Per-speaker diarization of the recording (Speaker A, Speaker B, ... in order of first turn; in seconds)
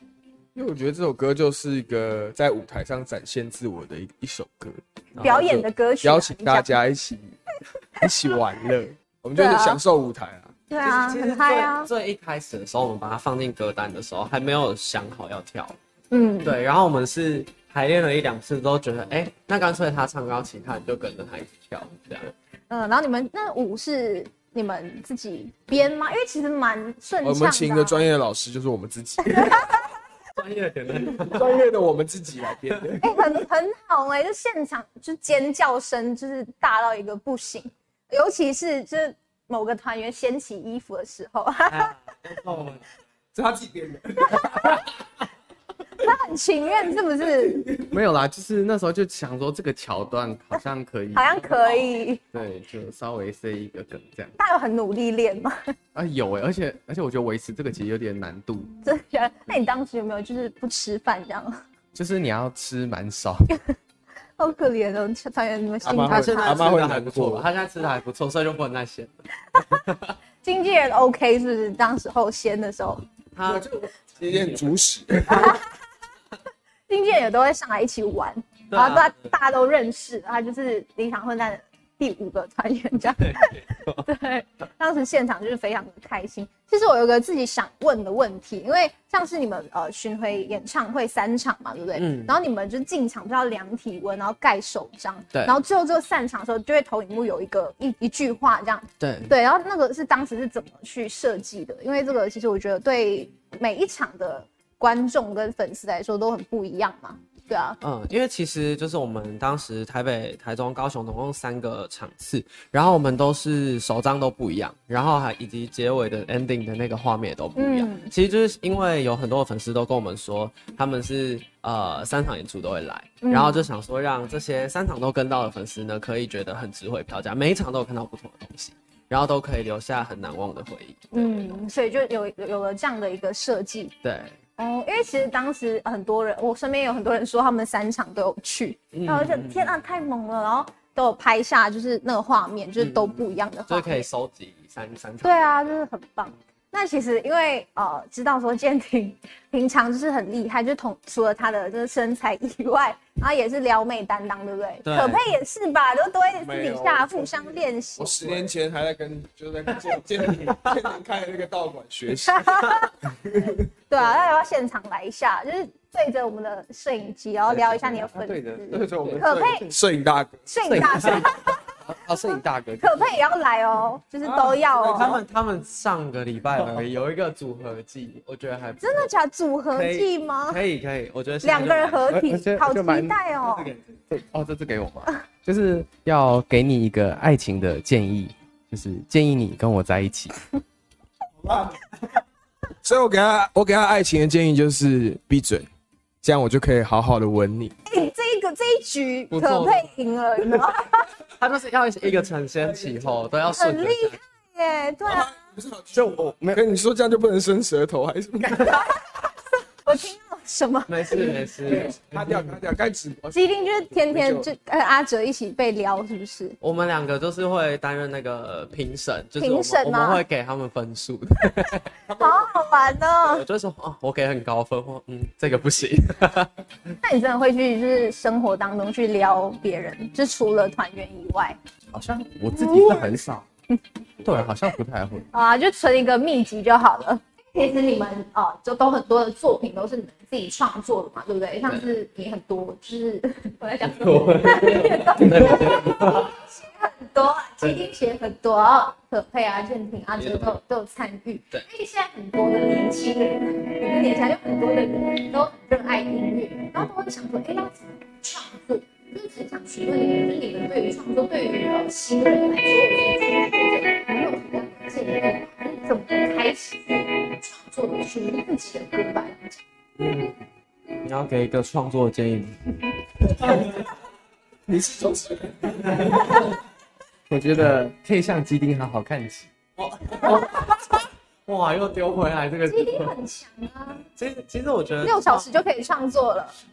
Speaker A: 0.6-7.4, 8.0-10.5, 27.2-29.9, 31.0-33.2, 43.3-44.9, 47.5-47.9, 65.8-67.5, 73.5-75.6, 156.4-163.7, 168.7-171.2, 174.2-175.2, 192.8-195.7, 196.2-197.8, 205.1-208.9, 211.7-214.5, 274.7-276.3
Speaker B: 5.2-5.6, 10.8-15.8, 16.4-22.3, 30.3-31.6, 41.7-42.9, 65.8-70.2, 73.3-74.8, 78.7-79.3, 83.2-84.0, 92.0-92.3, 99.0-99.3, 107.8-131.5, 134.0-134.4, 138.9-139.7, 142.8-145.7, 154.8-155.2, 174.9-179.1, 179.7-182.3, 199.3-199.9, 201.4-204.2, 210.9-212.0, 216.6-222.3, 223.2-226.5, 243.8-246.3, 250.2-250.6, 270.0-270.4, 271.0-272.6, 273.4-273.7, 279.8-283.1, 284.1-285.5
Speaker C: 5.2-6.7, 9.4-9.8, 10.7-11.9, 16.1-16.6, 22.7-28.0, 33.0-41.9, 46.0-47.6, 51.1-52.2, 54.4-55.7, 58.8-61.6, 64.4-66.6, 70.4-73.0, 75.3-75.6, 76.9-107.8, 117.6-118.1, 123.2-123.7, 131.1-133.9, 134.6-144.1, 145.2-158.5, 162.3-162.9, 163.9-169.7, 170.5-171.8, 172.8-175.1, 178.8-180.6, 181.4-183.7, 197.9-201.1, 203.6-205.3, 208.6-208.9, 209.9-211.3, 213.3-216.6, 219.4-220.2, 222.2-223.4, 227.0-231.6, 232.6-233.1, 235.3-269.6, 282.7-284.0, 285.0-286.6
Speaker D: 47.9-51.6, 52.3-54.3, 55.9-58.7, 61.9-63.5, 167.5-169.5, 170.7-173.2, 176.6-177.0, 182.1-183.2, 184.1-190.4, 205.9-206.6, 231.9-233.5, 234.2-235.3, 277.3-279.5